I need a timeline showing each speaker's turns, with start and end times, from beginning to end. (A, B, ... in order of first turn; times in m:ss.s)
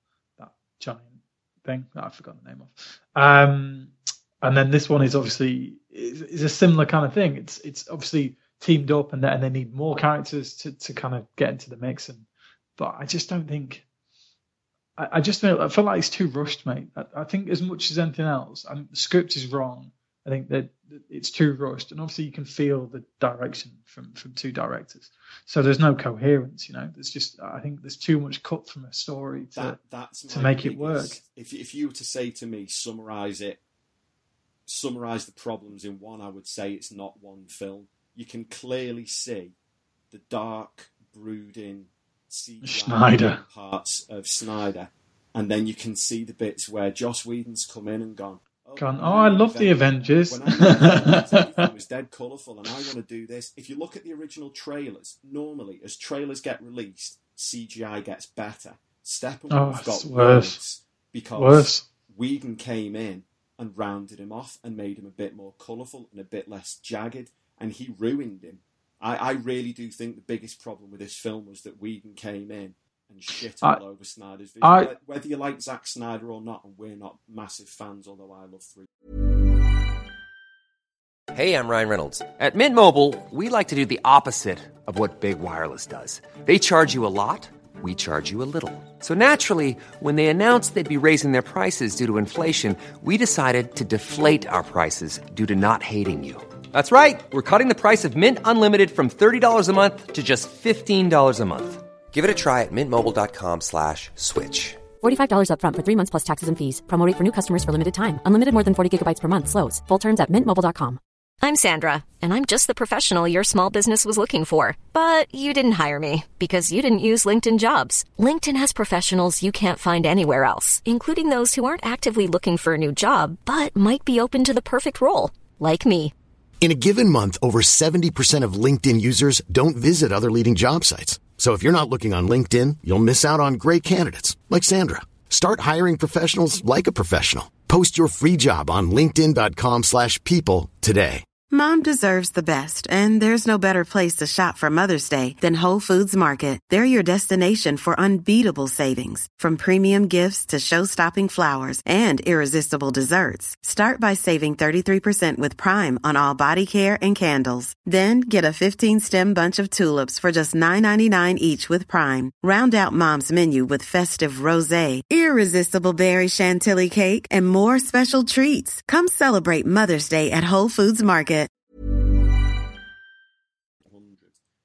0:00.4-0:13.8 A
0:15.0-0:29.8 A
0:29.5-0:33.6 B
0:30.3-0:31.2 A
0:34.7-0:39.5 B
0:40.1-1:18.9 B
0:42.6-0:43.4 A
0:48.8-0:51.6 A
0:59.5-1:00.6 A
1:01.4-1:01.8 A
1:14.6-1:14.9 A
1:21.3-1:44.8 C
1:45.0-1:51.0 D
1:51.4-2:06.1 E
2:06.6-2:21.2 F
2:21.5-2:51.5 G
2:53.8-2:54.4 B